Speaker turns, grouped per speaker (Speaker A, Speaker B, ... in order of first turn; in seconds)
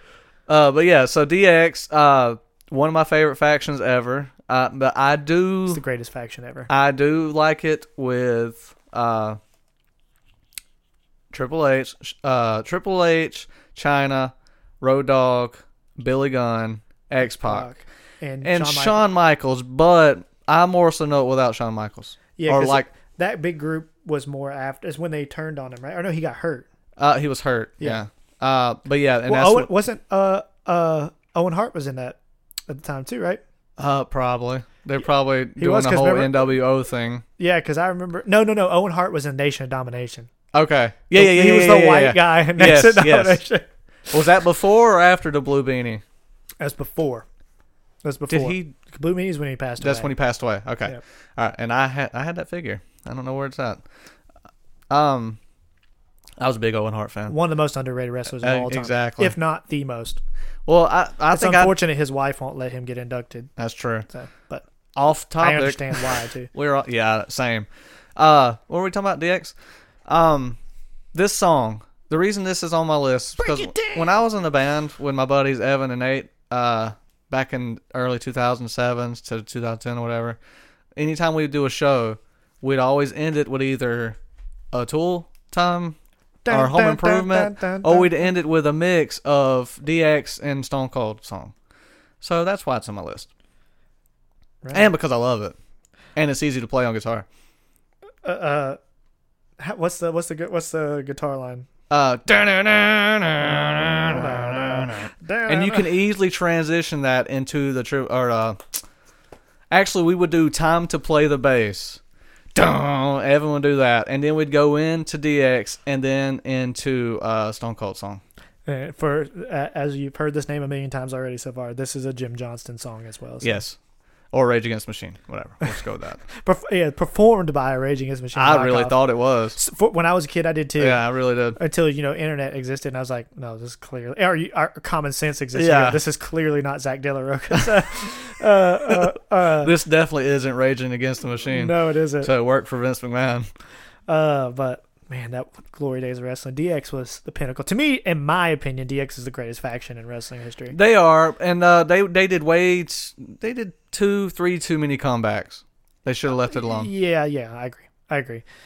Speaker A: 0.5-5.8, 6.7-9.4, 11.3-17.7, 18.4-22.9, 27.0-29.7, 33.8-37.2, 40.5-43.4, 44.1-46.0, 48.3-48.7, 49.8-53.8, 54.9-55.4, 56.4-57.4, 58.4-59.3, 60.6-61.7, 63.6-64.1, 64.9-69.5, 70.0-70.6, 71.1-80.4, 81.0-84.2, 84.7-86.0, 86.5-91.5, 92.2-93.3, 94.7-95.5, 96.2-97.2, 101.9-108.8, 109.7-112.0, 112.5-118.2, 123.4-123.8, 124.3-126.2, 128.3-129.6, 130.8-131.6, 135.5-136.0, 139.6-143.5, 150.7-156.9
Speaker B: 5.7-6.7, 17.4-19.0, 22.4-26.7, 29.2-33.4, 35.6-36.5, 37.4-40.3, 41.1-43.6, 46.6-47.2, 48.0-50.1, 57.3-60.2, 61.3-63.5, 64.1-64.6, 65.4-66.5, 73.4-74.1, 86.4-88.2, 94.6-94.9, 98.2-98.8, 99.6-101.7, 104.0-105.9, 118.7-123.6, 126.3-129.0, 129.5-131.0, 131.5-139.7, 141.5-142.3, 144.1-150.7, 156.4-158.4